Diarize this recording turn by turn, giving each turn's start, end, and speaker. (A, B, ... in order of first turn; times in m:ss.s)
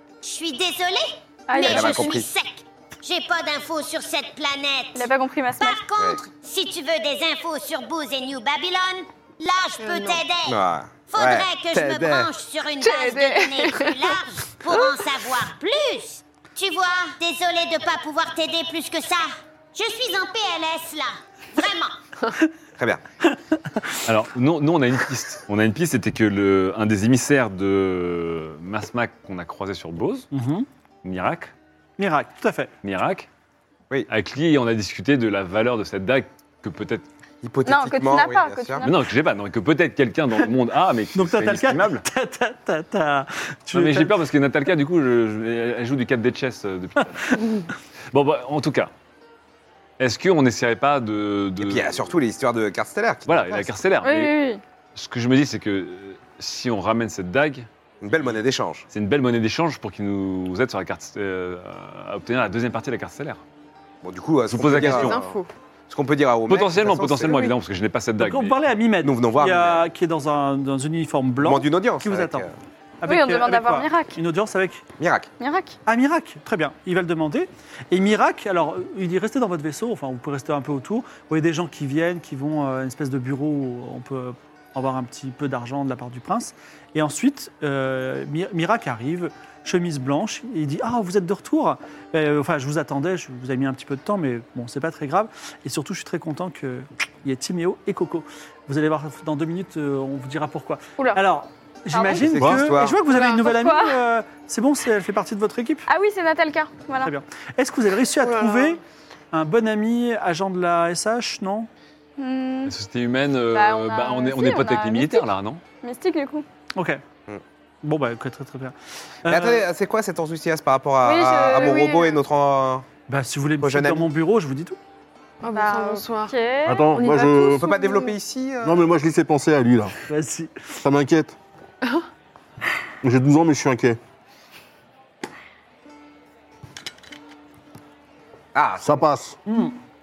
0:00.2-0:22.0 A
0:01.5-0:02.1 B
0:01.6-0:02.3 C
0:04.9-0:05.8 B
0:09.8-0:10.2 D
0:10.4-0:12.3 C
0:12.8-0:14.1 B
0:24.0-0:30.3 E
0:30.3-0:30.7 F
0:31.0-0:31.5 E
0:32.0-0:32.7 F
0:32.8-0:33.3 E
0:34.1-0:37.0 E
0:37.4-0:38.8 C
0:37.6-0:39.0 B
0:38.8-0:42.0 E
0:41.1-0:44.2 F
0:43.7-0:47.5 E
0:48.1-0:48.9 E
0:50.0-0:52.1 E
0:51.6-0:53.8 C
0:53.2-0:54.4 E
0:54.0-0:54.6 B
0:54.9-0:57.7 E
0:58.0-0:58.9 C
0:58.9-1:03.4 E
1:04.0-1:05.4 C
1:04.5-1:05.2 E
1:04.7-1:05.5 D
1:05.9-1:07.5 C
1:06.5-1:08.6 E
1:08.2-1:12.4 F
1:09.0-1:09.8 C
1:11.4-1:12.5 C
1:13.0-1:14.8 F
1:13.0-1:14.2 B
1:15.0-1:15.3 C
1:15.4-1:15.8 B
1:15.8-1:45.9 F
1:41.9-1:42.3 B
1:42.2-1:43.0 C
1:43.0-1:43.4 D
1:43.4-1:44.0 B
1:45.9-1:47.1 B
1:47.0-1:48.8 F
1:48.2-1:48.8 D
1:49.3-1:51.7 F
1:52.2-1:52.7 B
1:52.6-1:55.6 E
1:53.5-1:55.3 B
1:55.8-1:56.4 B
1:56.8-1:57.0 F
1:57.8-1:59.6 F
1:59.2-2:02.8 C
2:01.0-2:02.2 B
2:03.1-2:04.8 F
2:03.6-2:04.1 C
2:05.4-2:08.1 D
2:05.5-2:06.9 B
2:06.6-2:07.6 G
2:07.6-2:08.9 C
2:08.6-2:09.9 G
2:10.1-2:10.8 F
2:10.8-2:11.4 G
2:13.0-2:14.0 G
2:18.5-2:19.0 C
2:18.8-2:19.4 G
2:19.5-2:19.7 F